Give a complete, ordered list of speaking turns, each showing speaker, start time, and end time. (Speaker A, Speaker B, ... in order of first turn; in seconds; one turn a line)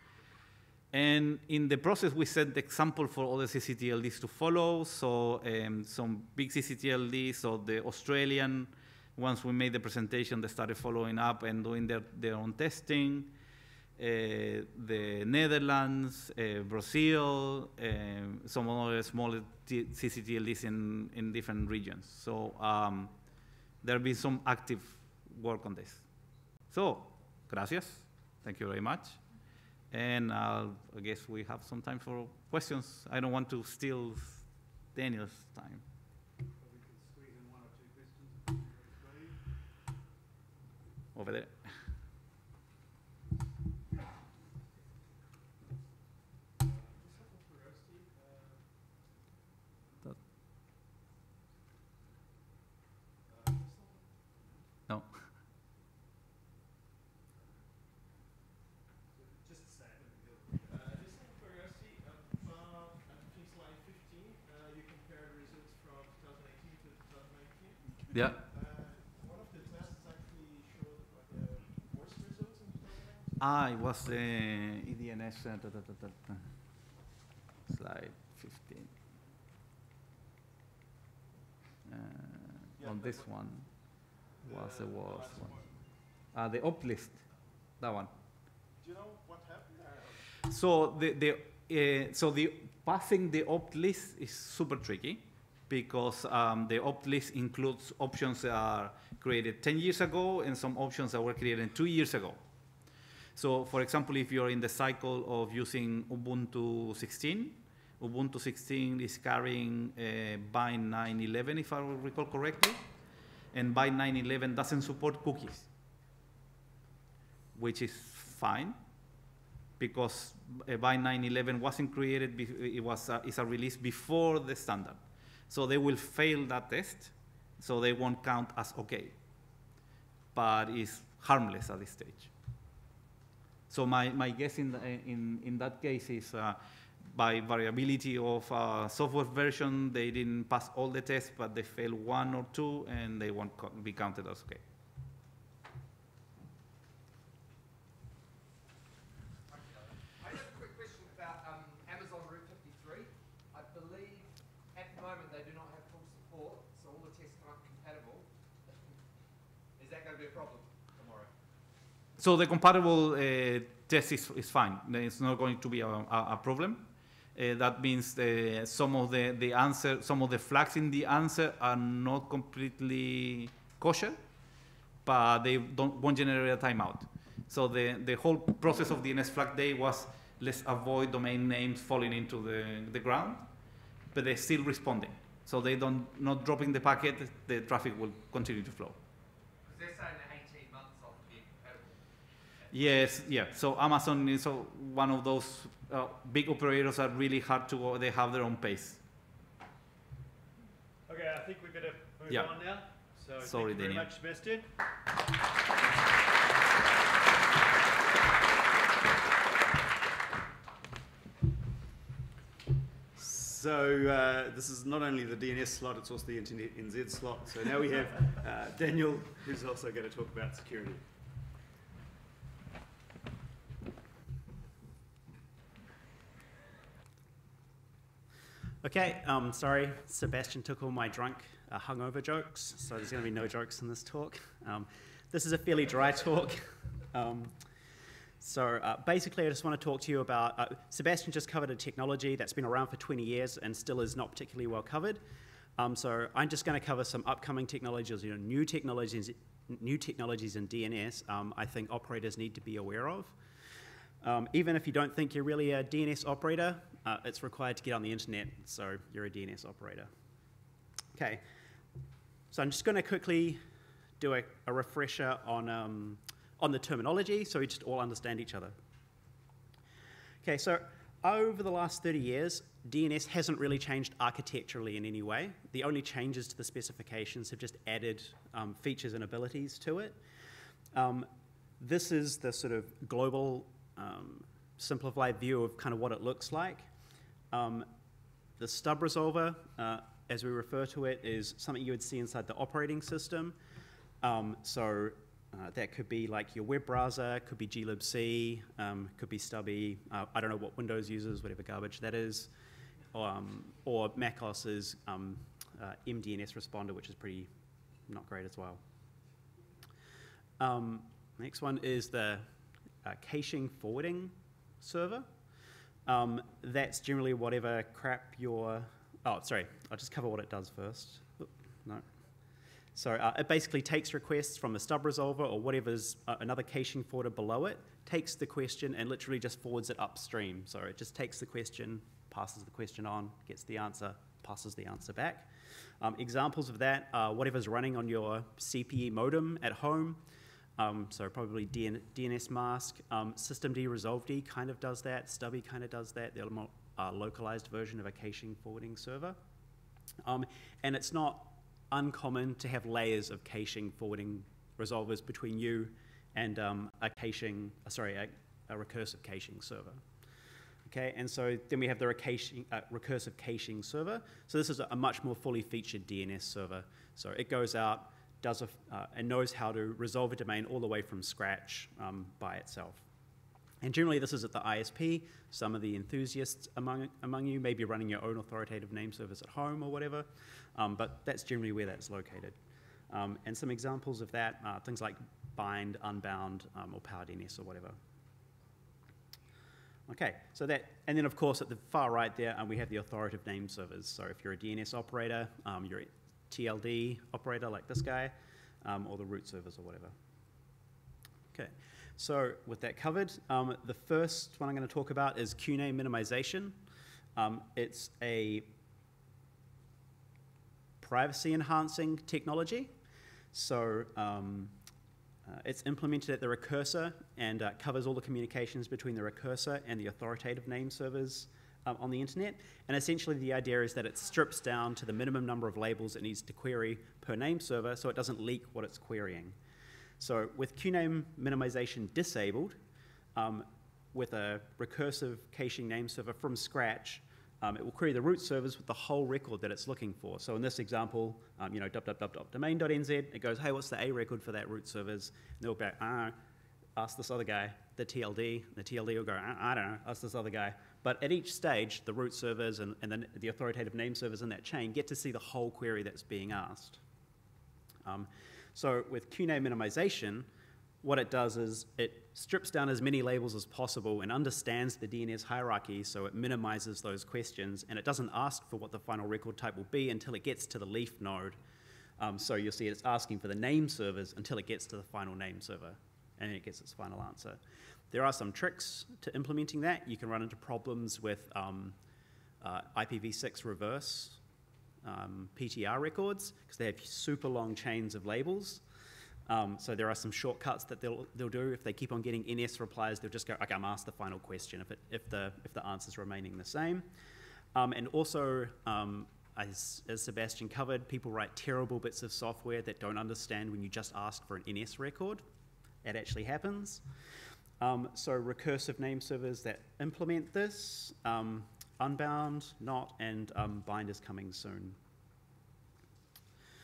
Speaker A: 0.9-13.3
Speaker A: 14.0-23.2
Speaker A: 23.8-26.1
Speaker A: 26.7-35.8
Speaker B: 36.6-39.4
Speaker A: 41.1-41.8
Speaker B: 46.6-49.1
Speaker B: 53.2-54.6
Speaker A: 54.9-55.3
Speaker B: 59.1-73.5
Speaker A: 68.1-68.4
Speaker A: 73.4-76.7
Speaker A: 77.7-78.9
Speaker A: 81.9-85.6
Speaker B: 85.2-85.6
Speaker A: 86.3-87.3
Speaker A: 87.8-88.1
Speaker B: 88.8-90.2
Speaker A: 90.5-102.4
Speaker A: 103.3-112.9
Speaker A: 113.5-115.7
Speaker A: 117.5-118.8
Speaker A: 119.8-129.2
Speaker A: 130.3-132.3
Speaker A: 133.7-144.6
Speaker C: 151.0-151.4
Speaker C: 151.9-153.1
Speaker C: 153.6-154.2
Speaker C: 154.8-158.2
Speaker C: 159.8-161.2
Speaker A: 162.2-174.2
Speaker A: 175.0-183.5
Speaker A: 184.1-189.0
Speaker C: 190.1-190.8
Speaker A: 192.7-199.0
Speaker D: 201.1-204.7
Speaker A: 202.3-204.1
Speaker D: 213.2-221.0
Speaker E: 228.8-236.6
Speaker E: 237.1-237.5
Speaker E: 238.4-245.2
Speaker E: 245.8-253.3
Speaker E: 254.2-260.1
Speaker E: 262.5-263.6
Speaker E: 264.2-268.7
Speaker E: 270.4-280.1
Speaker E: 280.9-281.2
Speaker E: 281.8-286.8
Speaker E: 287.5-287.9
Speaker E: 288.6-293.5
Speaker E: 294.2-302.5
Speaker E: 303.1-307.5
Speaker E: 308.1-308.8
Speaker E: 310.6-312.4
Speaker E: 313.1-314.3
Speaker E: 314.8-315.2
Speaker E: 316.1-322.0
Speaker E: 323.0-335.4
Speaker E: 336.0-340.2
Speaker E: 340.8-349.3
Speaker E: 350.2-360.0
Speaker E: 360.9-372.9
Speaker E: 373.8-380.2
Speaker E: 380.8-382.5
Speaker E: 383.1-387.9
Speaker E: 390.1-398.3
Speaker E: 398.8-400.1
Speaker E: 402.2-406.7
Speaker E: 407.4-408.6
Speaker E: 411.0-412.9
Speaker E: 413.5-414.7
Speaker E: 415.5-429.5
Speaker E: 430.2-432.7
Speaker E: 433.4-446.3
Speaker E: 447.0-457.0
Speaker E: 458.1-460.4
Speaker E: 461.0-471.5
Speaker E: 472.2-477.6
Speaker E: 478.1-481.9
Speaker E: 482.6-484.3
Speaker E: 485.1-488.8
Speaker E: 489.5-497.1
Speaker E: 497.8-505.4
Speaker E: 506.1-507.0
Speaker E: 507.8-515.0